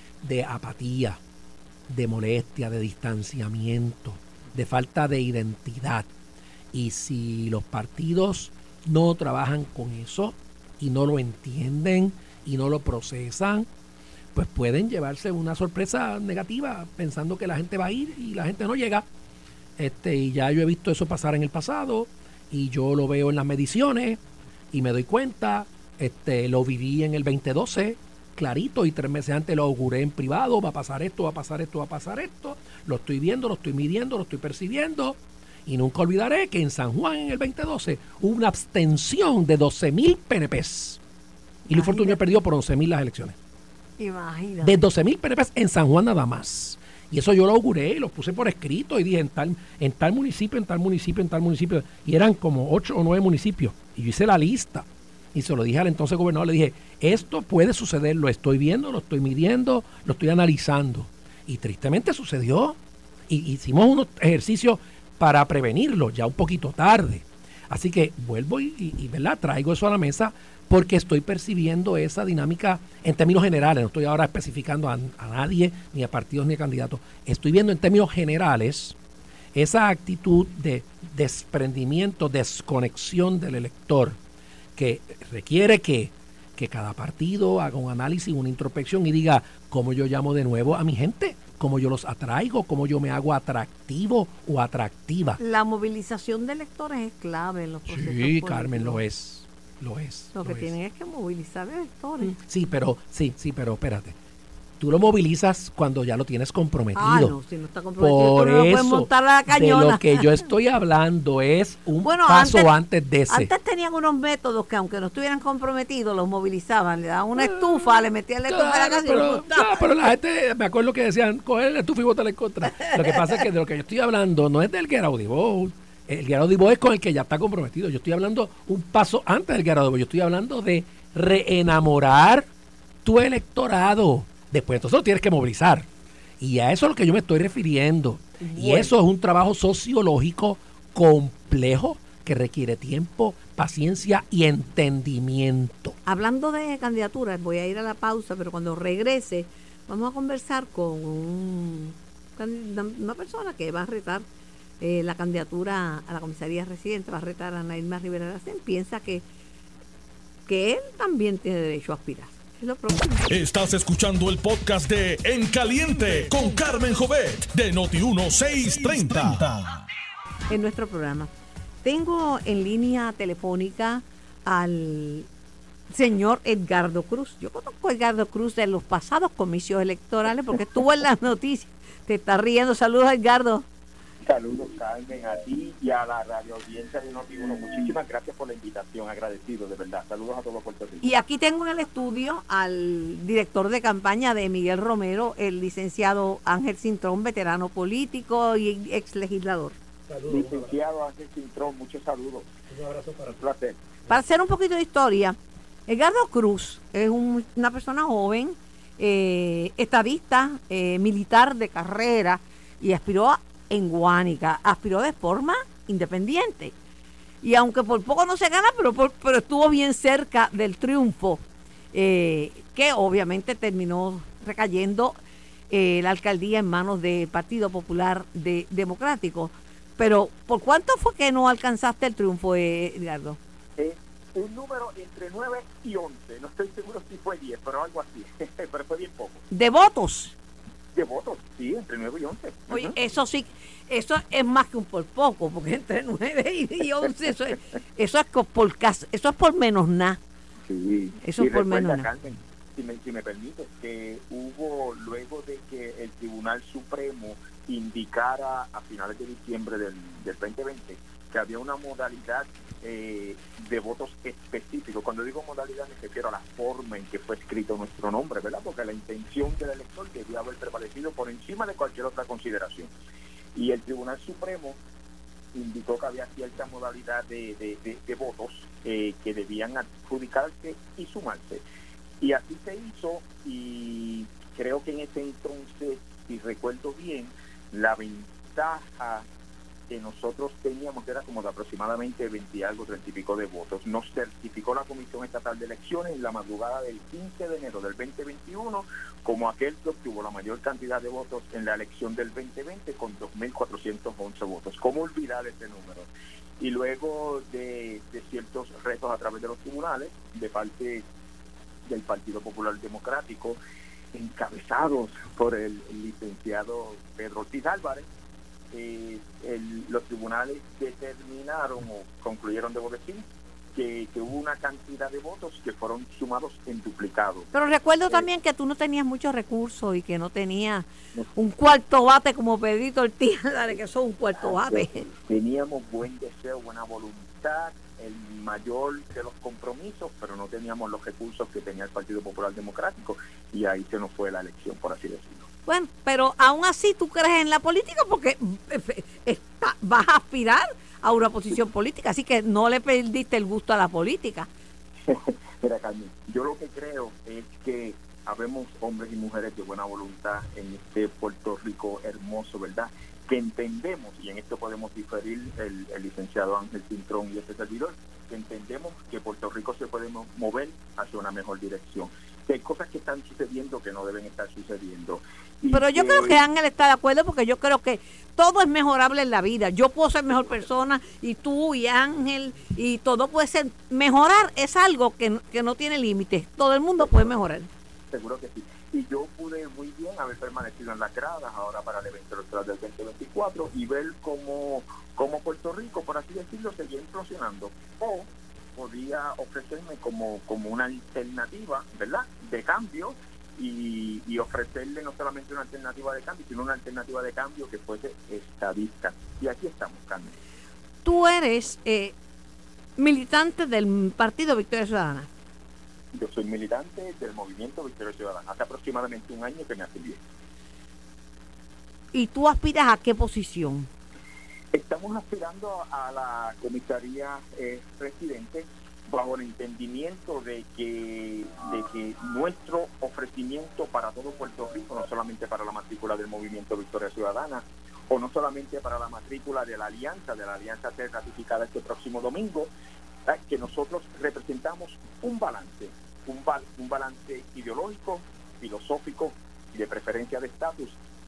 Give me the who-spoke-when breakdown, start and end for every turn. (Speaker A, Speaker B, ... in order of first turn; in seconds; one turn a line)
Speaker A: 0.2-1.2
Speaker A: 1.9-6.1
Speaker A: 6.7-13.7
Speaker A: 14.3-19.1
Speaker A: 19.8-24.2
Speaker A: 24.7-41.0
Speaker B: 41.7-42.2
Speaker A: 41.7-43.4
Speaker B: 44.0-44.8
Speaker A: 44.6-62.8
Speaker A: 63.3-79.0
Speaker A: 79.5-84.2
Speaker A: 84.8-95.4
Speaker B: 95.4-99.0
Speaker A: 97.9-100.7
Speaker B: 100.3-102.3
Speaker A: 102.2-104.2
Speaker A: 104.8-107.4
Speaker B: 107.0-110.5
Speaker A: 108.0-113.5
Speaker B: 112.0-112.7
Speaker B: 113.3-120.0
Speaker A: 118.5-132.5
Speaker B: 122.8-123.2
Speaker A: 133.0-135.9
Speaker A: 136.4-146.0
Speaker B: 138.4-138.9
Speaker B: 146.1-154.3
Speaker B: 154.8-159.2
Speaker B: 160.5-163.3
Speaker C: 163.3-169.8
Speaker B: 170.5-171.3
Speaker B: 171.8-175.3
Speaker B: 175.9-183.7
Speaker D: 184.2-191.1
Speaker B: 191.0-199.8
Speaker A: 200.1-200.6
Speaker D: 200.3-202.5
Speaker A: 202.7-203.3
Speaker D: 203.3-203.8
Speaker B: 204.1-216.7
Speaker B: 217.4-225.1
Speaker B: 225.7-233.4
Speaker D: 233.8-239.4
Speaker B: 239.5-240.3
Speaker D: 240.9-242.9
Speaker B: 242.7-250.2
Speaker D: 250.7-272.9
Speaker B: 251.2-252.1
Speaker D: 273.6-274.8
Speaker D: 275.5-281.6
Speaker D: 282.2-289.3
Speaker D: 289.9-306.1
Speaker D: 306.6-311.1
Speaker D: 311.9-313.6
Speaker D: 314.1-318.1
Speaker D: 318.7-327.5
Speaker B: 327.5-335.1
Speaker D: 334.4-345.5
Speaker B: 345.7-354.5
Speaker D: 355.1-376.4
Speaker B: 375.7-387.7
Speaker D: 388.1-410.4
Speaker B: 411.1-412.1
Speaker B: 413.0-415.3
Speaker D: 416.1-420.2
Speaker B: 422.1-423.9
Speaker D: 424.7-442.7
Speaker D: 443.3-451.0